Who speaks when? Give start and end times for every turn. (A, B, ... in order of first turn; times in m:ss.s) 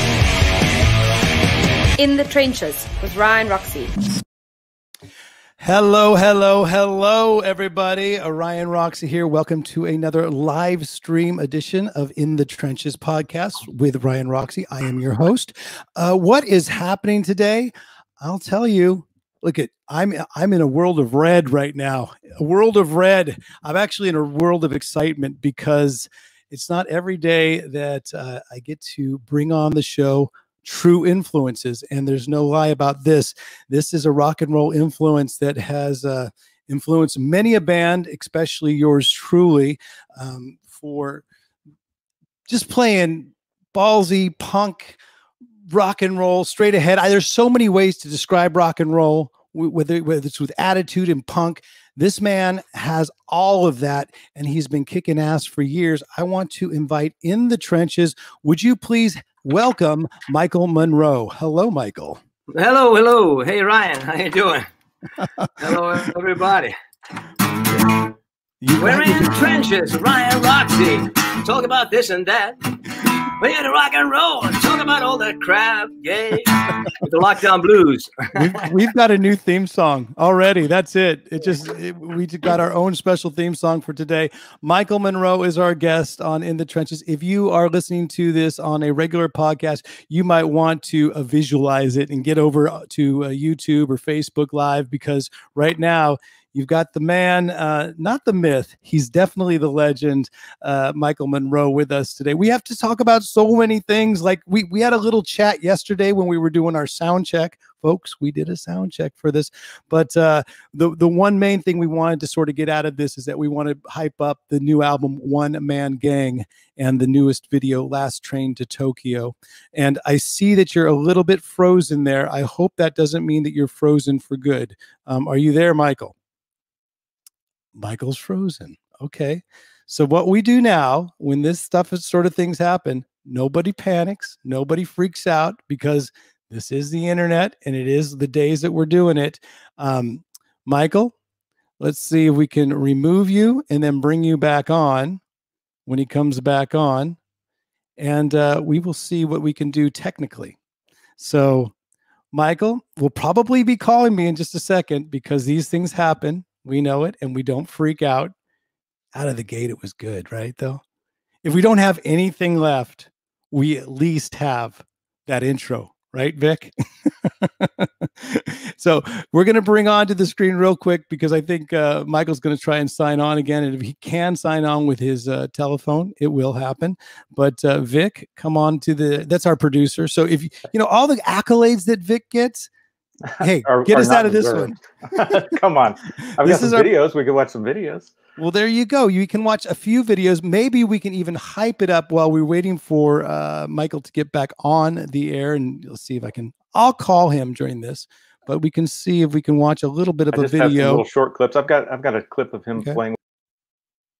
0:02.0-0:03.9 A
0:05.6-0:41.2 B
0:42.5-0:45.0 B
0:45.7-1:02.2 B
1:02.5-1:04.7 C
1:05.2-1:05.5 B
1:05.6-1:06.7 C
1:08.6-1:09.4 B
1:08.8-1:12.6 C
1:13.4-1:18.7 C
1:18.4-2:06.1 B
2:07.7-2:21.1 B
2:21.8-2:25.2 B
2:25.9-2:27.2 B
2:28.0-2:30.6 B
2:31.2-2:31.7 B
2:32.3-2:38.3 B
2:39.1-2:40.8 B
2:41.4-2:46.7 B
2:47.2-3:02.7 B
3:03.3-3:08.1 D
3:03.4-3:04.7 B
3:06.4-3:06.9 B
3:08.4-3:21.0 B
3:20.3-3:23.2 D